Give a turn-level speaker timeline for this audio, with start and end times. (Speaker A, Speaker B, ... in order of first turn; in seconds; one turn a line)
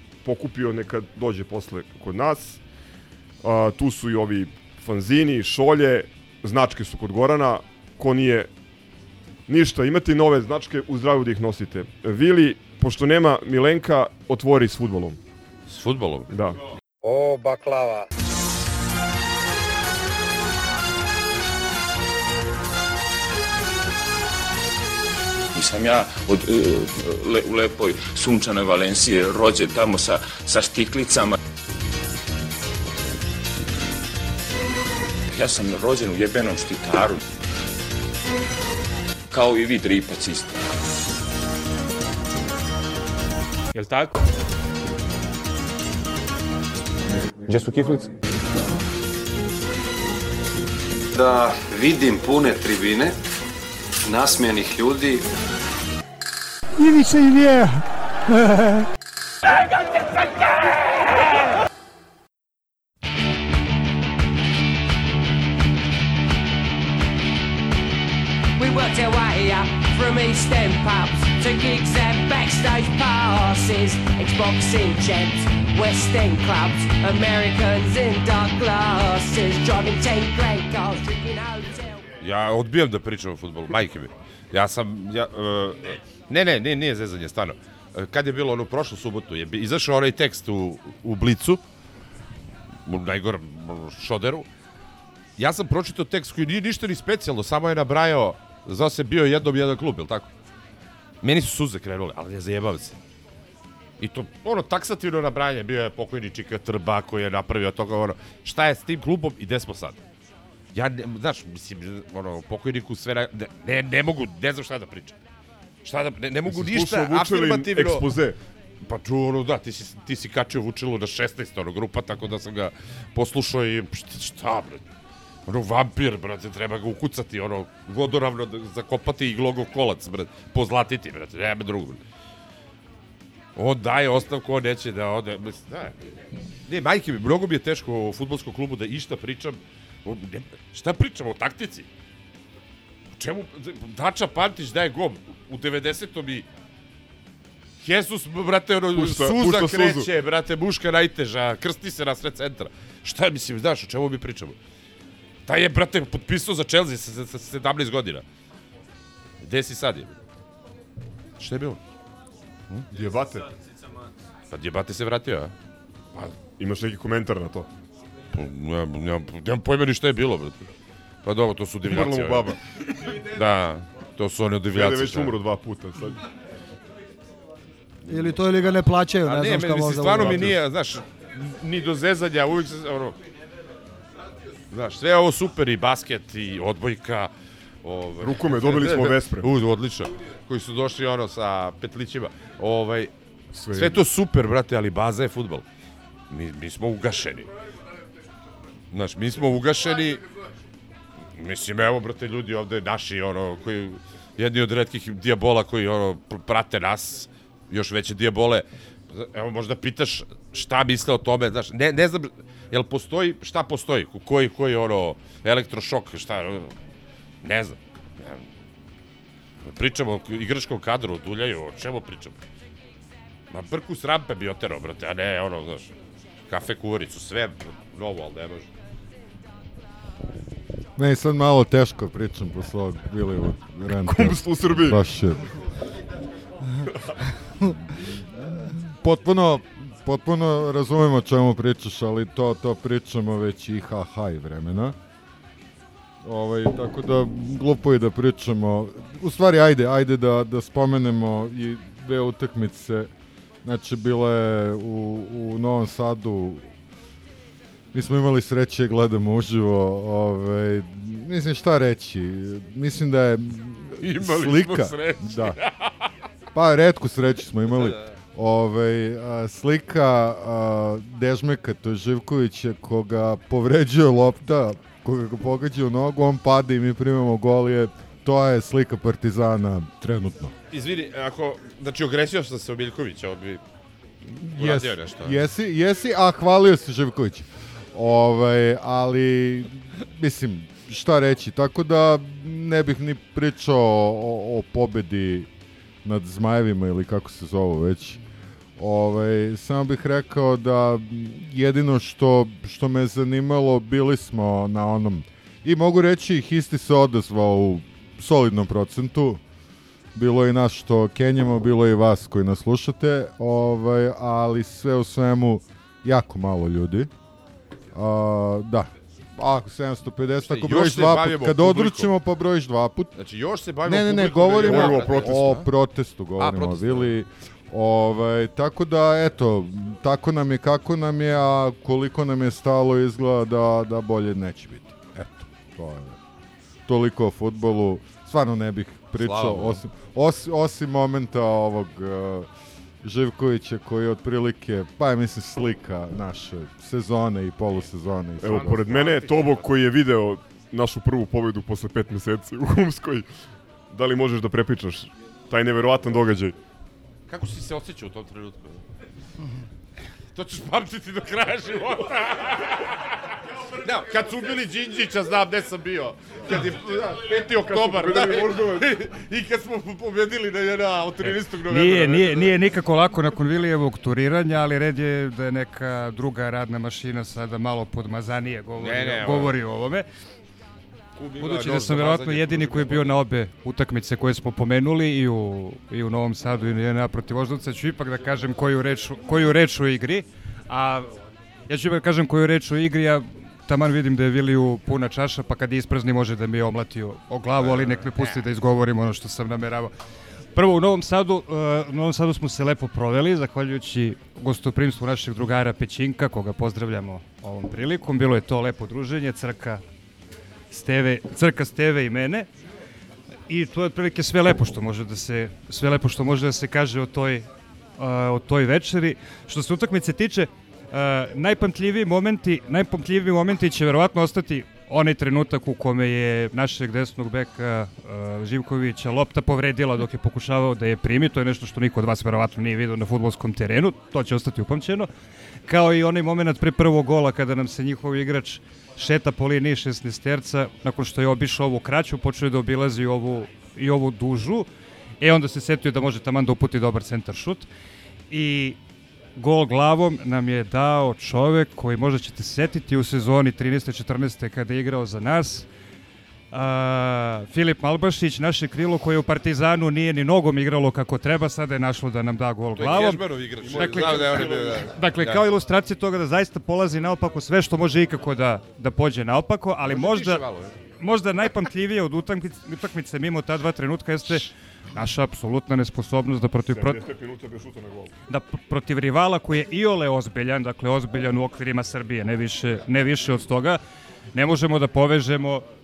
Speaker A: 0.2-2.6
Speaker A: 3.4-8.5
Speaker A: 9.5-15.2
Speaker B: 15.7-16.3
Speaker A: 16.3-16.6
Speaker C: 25.6-31.4
Speaker C: 35.3-37.2
Speaker C: 39.3-40.5
Speaker D: 51.1-53.2
Speaker D: 54.0-55.2
Speaker E: 68.6-82.0
Speaker B: 82.2-91.6
Speaker B: 92.9-94.5
Speaker B: 95.4-100.3
Speaker B: 101.2-103.0
Speaker B: 104.0-110.0
Speaker B: 110.7-115.2
Speaker B: 115.8-118.1
Speaker A: 116.5-118.4
Speaker B: 118.8-124.8
Speaker B: 125.5-132.0
Speaker B: 133.6-135.9
Speaker B: 136.7-141.9
Speaker B: 143.2-146.5
Speaker B: 147.8-154.6
Speaker A: 148.9-150.1
Speaker B: 155.5-158.2
Speaker B: 159.4-160.1
Speaker B: 161.4-161.8
Speaker A: 162.9-163.5
Speaker B: 164.5-165.5
Speaker A: 166.6-167.7
Speaker B: 168.3-170.6
Speaker B: 171.2-172.6
Speaker A: 171.9-172.6
Speaker B: 173.2-175.3
Speaker A: 174.7-176.2
Speaker F: 178.1-180.5
Speaker B: 178.1-178.4
Speaker B: 179.2-183.2
Speaker A: 180.2-180.6
Speaker B: 184.7-187.3
Speaker B: 187.8-193.1
Speaker A: 188.2-189.5
Speaker A: 193.5-194.0
Speaker B: 193.7-195.6
Speaker B: 196.3-197.5
Speaker B: 198.9-200.2
Speaker B: 201.4-216.7
Speaker B: 217.4-218.4
Speaker B: 219.6-222.4
Speaker B: 223.5-225.9
Speaker B: 226.5-228.7
Speaker G: 231.0-235.4
Speaker A: 234.0-235.0
Speaker G: 238.9-245.0
Speaker G: 246.2-253.1
Speaker G: 253.6-256.7
Speaker G: 257.9-265.6
Speaker B: 264.0-265.9
Speaker G: 266.5-280.5
Speaker B: 280.7-283.6
Speaker G: 284.4-295.5
Speaker B: 284.6-285.4
Speaker G: 296.0-298.2
Speaker G: 298.8-309.4
Speaker G: 310.1-317.1
Speaker G: 317.9-323.1
Speaker B: 320.4-322.1
Speaker B: 323.2-325.7
Speaker G: 323.9-335.2
Speaker A: 324.6-325.4
Speaker B: 326.4-327.1
Speaker G: 335.7-336.2
Speaker G: 336.9-342.5
Speaker B: 339.2-339.8
Speaker G: 343.0-349.0
Speaker A: 348.4-353.3
Speaker B: 348.5-349.7
Speaker A: 353.9-356.6
Speaker B: 357.3-358.8
Speaker B: 360.3-363.0
Speaker B: 363.8-372.5
Speaker A: 367.6-368.9
Speaker H: 371.7-380.1
Speaker B: 378.8-379.5
Speaker B: 381.2-383.1
Speaker H: 381.4-391.1
Speaker H: 391.7-399.9
Speaker B: 397.6-398.4
Speaker H: 400.6-409.8
Speaker H: 410.7-412.5
Speaker H: 413.5-417.5
Speaker H: 418.0-435.1
Speaker H: 435.7-444.7
Speaker H: 445.2-447.7
Speaker H: 448.3-448.8
Speaker H: 449.4-455.7
Speaker H: 456.5-470.4
Speaker B: 462.8-465.4
Speaker A: 463.6-464.9
Speaker B: 469.9-470.7
Speaker H: 471.0-477.0
Speaker A: 476.7-478.1
Speaker H: 478.3-483.8
Speaker H: 484.3-485.6